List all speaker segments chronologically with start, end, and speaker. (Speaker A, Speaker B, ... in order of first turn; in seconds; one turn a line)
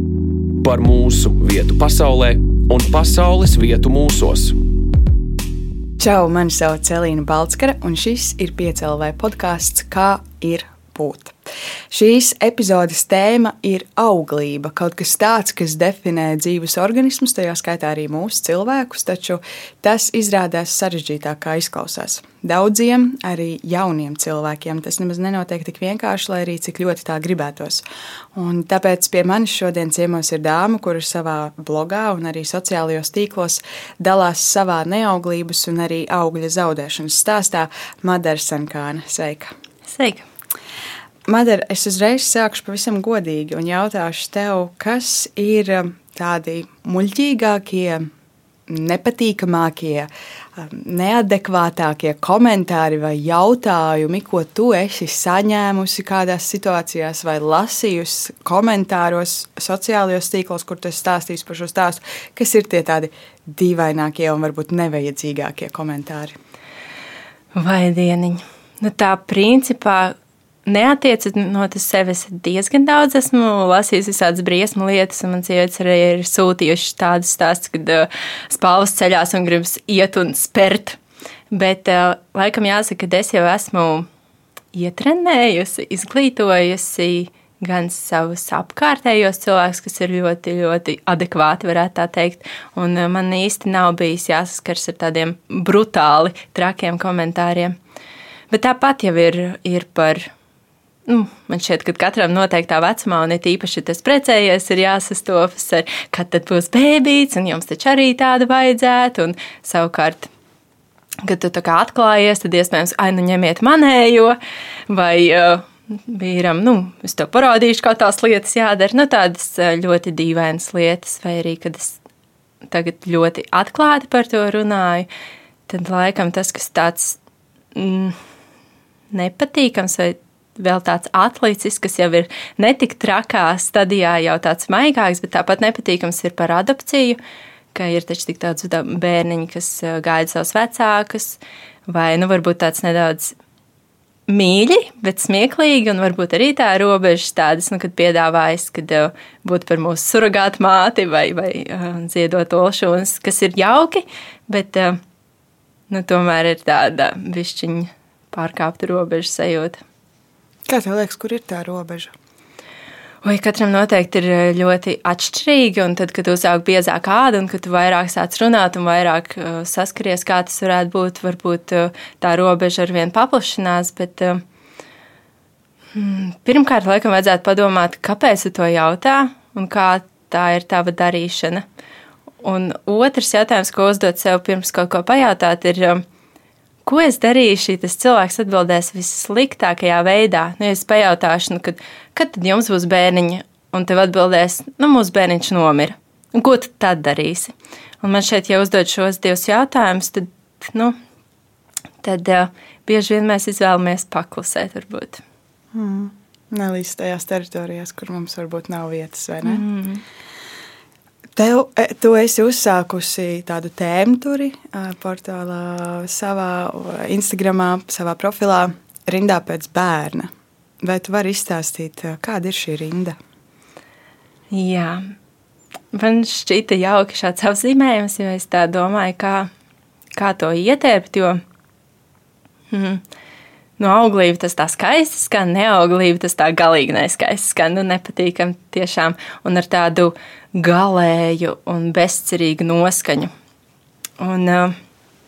Speaker A: 0.6-4.6
Speaker B: 6.0-11.4
Speaker B: 11.9-27.8
Speaker B: 28.4-39.5
Speaker C: 39.9-40.2
Speaker B: 41.3-48.1
Speaker B: 48.7-66.4
Speaker C: 67.6-70.2
Speaker C: 70.7-81.0
Speaker C: 81.5-84.1
Speaker C: 84.7-97.8
Speaker C: 98.5-100.3
Speaker C: 101.1-110.3
Speaker C: 111.2-114.4
Speaker C: 114.9-122.0
Speaker C: 122.7-125.1
Speaker C: 125.7-127.2
Speaker C: 127.8-128.2
Speaker C: 129.1-137.2
Speaker C: 137.7-143.3
Speaker C: 144.3-155.0
Speaker C: 155.9-159.8
Speaker B: 160.7-162.1
Speaker C: 163.2-174.4
Speaker C: 175.9-181.7
Speaker C: 182.4-186.0
Speaker C: 186.8-200.9
Speaker C: 202.0-205.2
Speaker B: 205.7-209.6
Speaker C: 209.4-210.0
Speaker B: 211.4-220.3
Speaker B: 220.8-223.2
Speaker C: 224.5-225.1
Speaker C: 225.9-229.5
Speaker C: 230.2-231.4
Speaker C: 232.7-233.0
Speaker C: 233.8-243.3
Speaker C: 244.2-244.8